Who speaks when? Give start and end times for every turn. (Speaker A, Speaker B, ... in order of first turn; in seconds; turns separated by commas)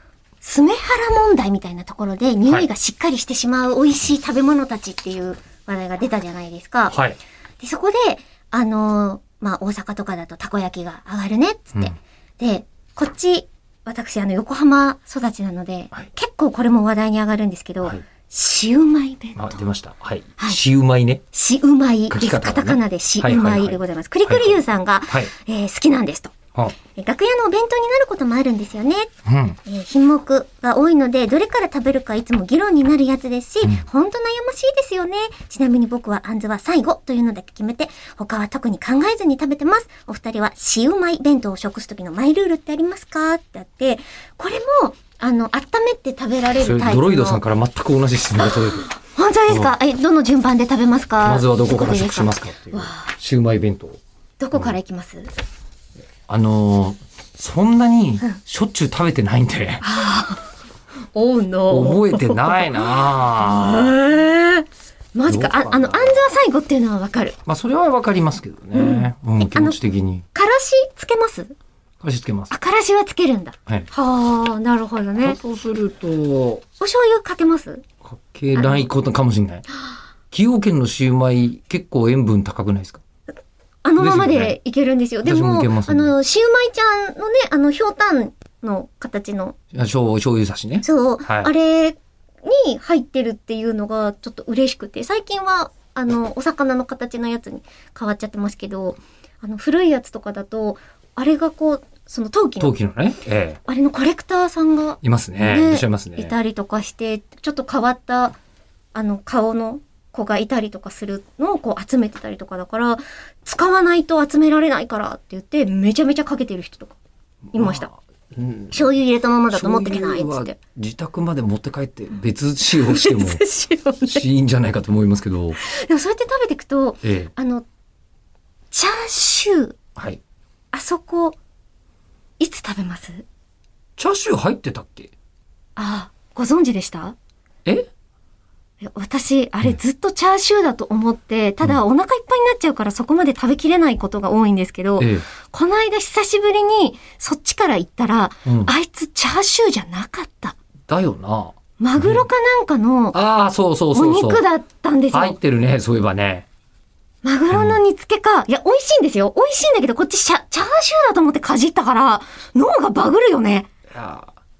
Speaker A: 0.4-7.0, Speaker B: 6.9-7.2, Speaker A: 7.6-19.6, Speaker B: 19.4-21.2, Speaker A: 21.3-26.4, Speaker B: 22.1-24.6, Speaker A: 26.9-29.1, Speaker B: 29.2-29.6, Speaker A: 29.6-47.4, Speaker B: 46.6-48.9, Speaker A: 48.4-53.1, Speaker B: 51.2-54.0, Speaker A: 54.4-55.3, Speaker B: 56.3-59.8, Speaker A: 59.8-60.5, Speaker A: 61.1-67.4, Speaker B: 61.7-64.0, Speaker B: 65.3-66.2, Speaker B: 67.5-70.2, Speaker A: 68.7-69.8, Speaker A: 70.3-71.5, Speaker B: 72.0-72.5, Speaker A: 72.5-75.4, Speaker B: 75.2-76.6, Speaker A: 76.8-77.8, Speaker B: 78.0-79.7, Speaker A: 78.5-78.8, Speaker B: 80.3-83.0, Speaker A: 83.8-89.5, Speaker B: 84.0-84.5, Speaker B: 85.2-86.1, Speaker B: 89.7-91.5, Speaker A: 90.8-102.7, Speaker B: 102.6-103.6, Speaker A: 103.6-108.3, Speaker B: 105.0-106.3, Speaker A: 108.9-117.0, Speaker B: 117.5-118.9, Speaker A: 117.5-117.9, Speaker A: 118.7-120.5, Speaker B: 119.5-123.4, Speaker A: 122.7-124.2, Speaker B: 124.1-125.6, Speaker A: 125.6-127.7, Speaker B: 127.0-127.3, Speaker A: 128.7-129.8, Speaker B: 129.9-130.2, Speaker A: 130.7-131.4, Speaker A: 132.4-133.2, Speaker B: 134.0-135.1, Speaker A: 135.8-137.2, Speaker A: 138.8-150.6, Speaker B: 145.0-145.2, Speaker B: 148.4-148.7, Speaker B: 150.9-152.2, Speaker A: 151.8-153.2, Speaker B: 153.1-154.4, Speaker A: 153.9-155.4, Speaker B: 155.1-156.4, Speaker A: 157.2-163.7, Speaker B: 157.5-157.8, Speaker B: 163.9-164.3